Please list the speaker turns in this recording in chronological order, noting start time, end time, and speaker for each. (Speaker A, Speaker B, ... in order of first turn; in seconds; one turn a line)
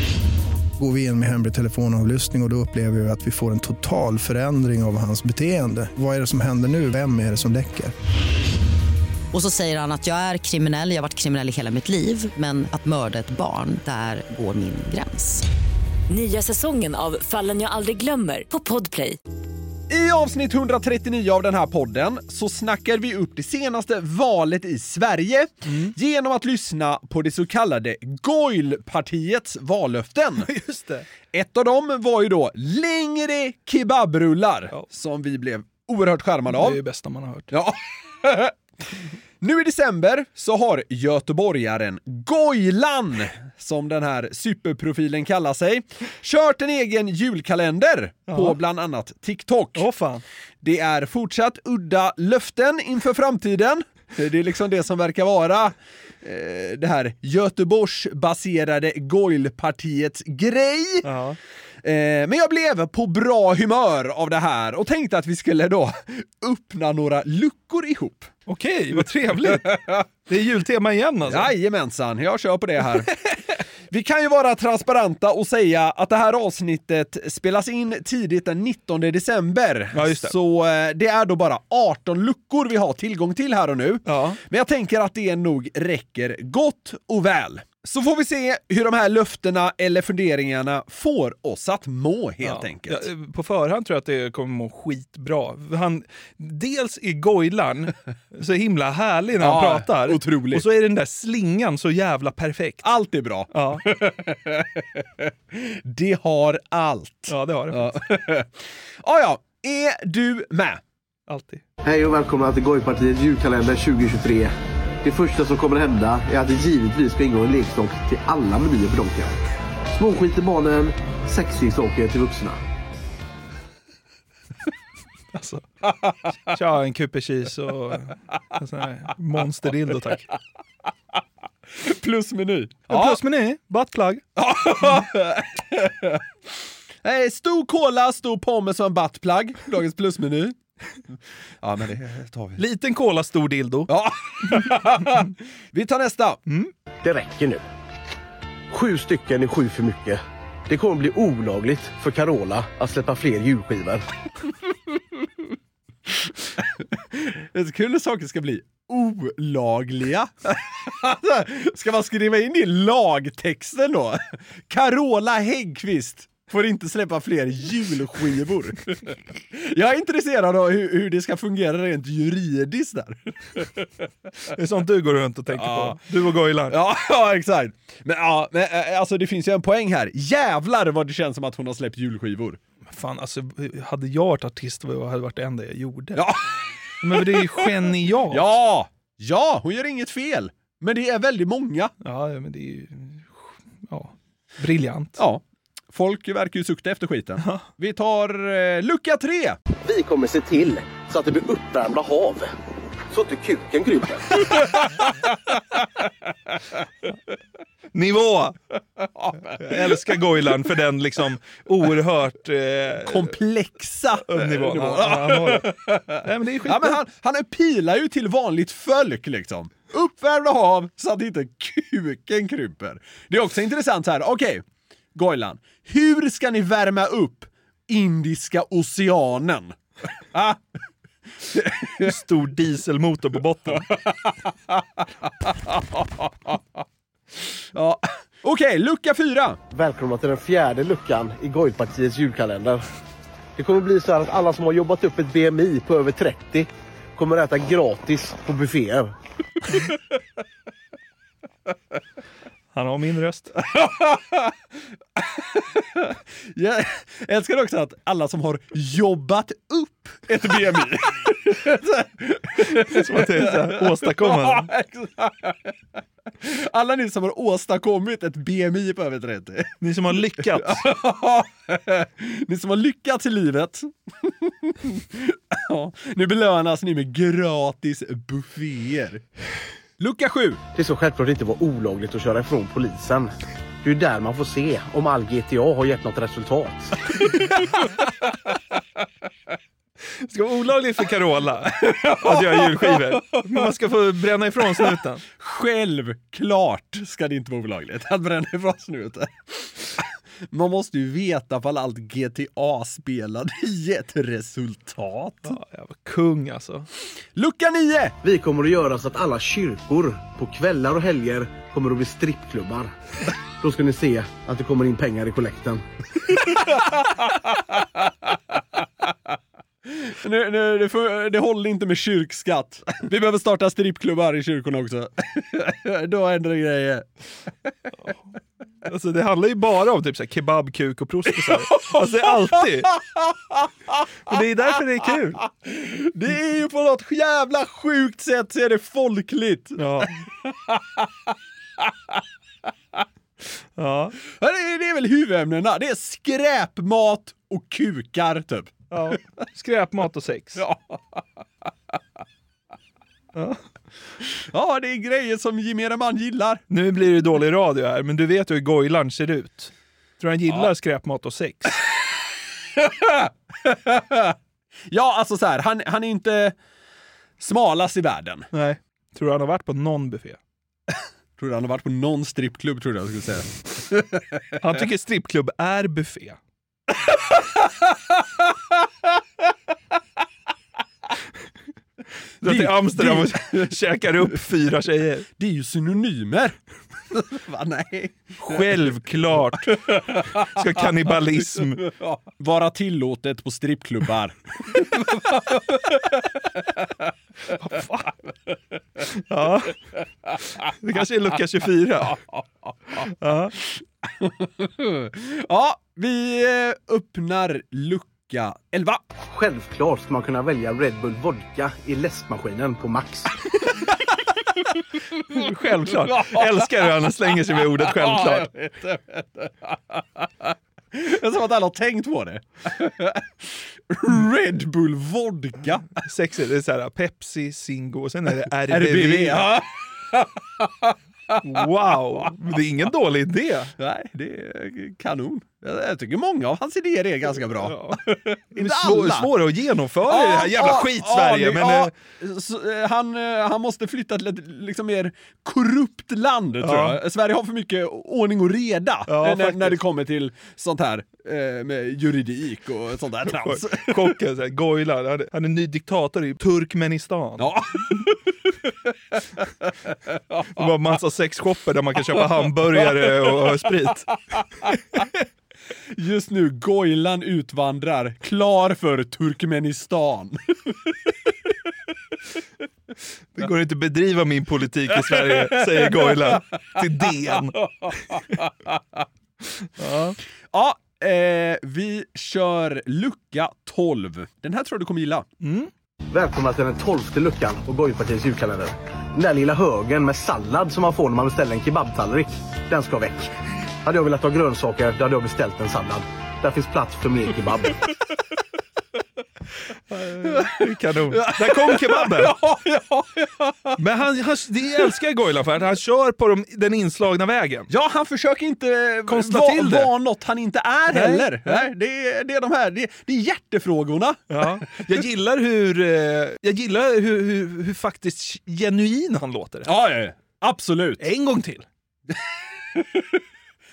Speaker A: 0.8-7.9
Speaker B: 9.3-15.4
Speaker C: 16.1-19.2
Speaker D: 19.9-30.5
Speaker E: 25.7-25.9
Speaker E: 30.4-31.1
Speaker D: 31.3-36.8
Speaker E: 36.5-37.5
Speaker D: 37.5-38.5
Speaker D: 39.4-49.9
Speaker E: 48.3-48.6
Speaker E: 49.8-50.2
Speaker D: 50.6-61.1
Speaker E: 61.0-61.4
Speaker D: 61.8-68.3
Speaker E: 68.5-71.5
Speaker D: 69.4-70.0
Speaker D: 71.3-73.1
Speaker D: 73.9-93.0
Speaker E: 79.9-80.3
Speaker E: 84.1-84.4
Speaker E: 92.4-102.9
Speaker D: 99.4-100.7
Speaker D: 102.8-110.8
Speaker E: 103.5-103.8
Speaker E: 107.3-108.0
Speaker E: 111.3-111.6
Speaker F: 111.8-114.5
Speaker F: 115.0-119.4
Speaker F: 120.0-122.6
Speaker E: 125.3-125.6
Speaker E: 126.5-130.3
Speaker D: 131.8-133.2
Speaker E: 132.9-134.2
Speaker D: 134.4-136.2
Speaker D: 137.0-140.6
Speaker D: 141.6-142.6
Speaker E: 142.6-143.9
Speaker D: 143.9-146.4
Speaker F: 147.0-147.6
Speaker F: 148.7-154.0
Speaker D: 157.1-173.9
Speaker E: 174.5-176.8
Speaker D: 175.5-176.0
Speaker D: 176.7-182.6
Speaker E: 182.9-186.2
Speaker D: 186.2-186.4
Speaker E: 187.0-188.6
Speaker D: 187.2-187.6
Speaker D: 188.3-191.9
Speaker E: 192.0-195.2
Speaker D: 195.9-199.6
Speaker E: 197.4-197.7
Speaker F: 199.8-202.5
Speaker F: 203.1-204.3
Speaker E: 207.9-208.6
Speaker D: 209.0-210.1
Speaker E: 209.6-213.4
Speaker D: 213.1-224.6
Speaker E: 214.3-217.0
Speaker D: 225.2-229.8
Speaker D: 230.3-230.6
Speaker D: 231.5-232.1
Speaker E: 232.0-233.9
Speaker D: 235.7-236.6
Speaker D: 237.7-239.6
Speaker F: 239.7-242.8
Speaker F: 243.6-249.1
Speaker E: 252.7-253.5
Speaker D: 253.6-254.5
Speaker D: 255.2-265.7
Speaker E: 262.7-264.7
Speaker D: 266.4-269.8
Speaker E: 269.8-270.9
Speaker D: 270.4-279.2
Speaker D: 280.0-280.6
Speaker F: 280.8-286.9
Speaker E: 290.2-295.2
Speaker D: 291.8-293.6
Speaker D: 294.8-305.5
Speaker E: 305.4-306.9
Speaker D: 307.4-308.2
Speaker F: 308.2-312.9
Speaker F: 313.6-315.8
Speaker D: 319.9-327.1
Speaker E: 328.9-332.9
Speaker D: 331.4-332.6
Speaker D: 333.2-333.6
Speaker E: 334.3-335.4
Speaker D: 335.5-339.9
Speaker E: 339.8-340.2
Speaker D: 340.4-341.1
Speaker E: 343.8-344.2
Speaker D: 344.3-348.8
Speaker E: 348.9-350.6
Speaker D: 350.6-351.2
Speaker E: 353.3-353.6
Speaker D: 354.4-356.6
Speaker E: 356.7-361.8
Speaker D: 362.8-364.4
Speaker D: 364.9-366.6
Speaker D: 367.4-368.5
Speaker E: 368.5-370.4
Speaker D: 371.4-374.6
Speaker E: 374.6-376.4
Speaker E: 382.4-385.3
Speaker D: 382.4-384.1
Speaker D: 385.4-386.6
Speaker D: 387.1-388.9
Speaker E: 388.4-389.8
Speaker D: 389.6-390.5
Speaker E: 390.4-391.9
Speaker D: 391.2-396.9
Speaker E: 397.5-398.1
Speaker E: 399.1-399.8
Speaker E: 400.7-402.2
Speaker E: 403.0-403.6
Speaker D: 404.0-409.0
Speaker F: 409.3-413.3
Speaker E: 415.3-418.5
Speaker D: 415.7-416.9
Speaker D: 417.6-425.9
Speaker E: 426.0-429.5
Speaker D: 428.7-431.4
Speaker E: 431.4-433.7
Speaker D: 433.8-439.3
Speaker E: 437.3-438.0
Speaker E: 438.6-441.9
Speaker D: 440.1-454.1
Speaker E: 446.6-447.0
Speaker E: 449.1-449.8
Speaker E: 453.3-457.5
Speaker D: 457.4-458.1
Speaker E: 460.6-464.1
Speaker D: 463.2-463.5
Speaker D: 465.9-471.1
Speaker E: 473.4-477.6
Speaker D: 475.1-476.8
Speaker D: 477.8-478.5
Speaker E: 479.8-480.2
Speaker D: 480.5-485.3
Speaker E: 485.4-485.7
Speaker F: 486.1-493.3
Speaker F: 493.8-497.8
Speaker E: 499.9-502.4
Speaker D: 501.1-503.8
Speaker E: 503.8-507.7
Speaker D: 507.7-514.3
Speaker E: 509.1-509.9
Speaker E: 510.9-511.7
Speaker E: 514.3-519.7
Speaker D: 519.7-521.0
Speaker E: 521.0-521.6
Speaker D: 522.7-523.1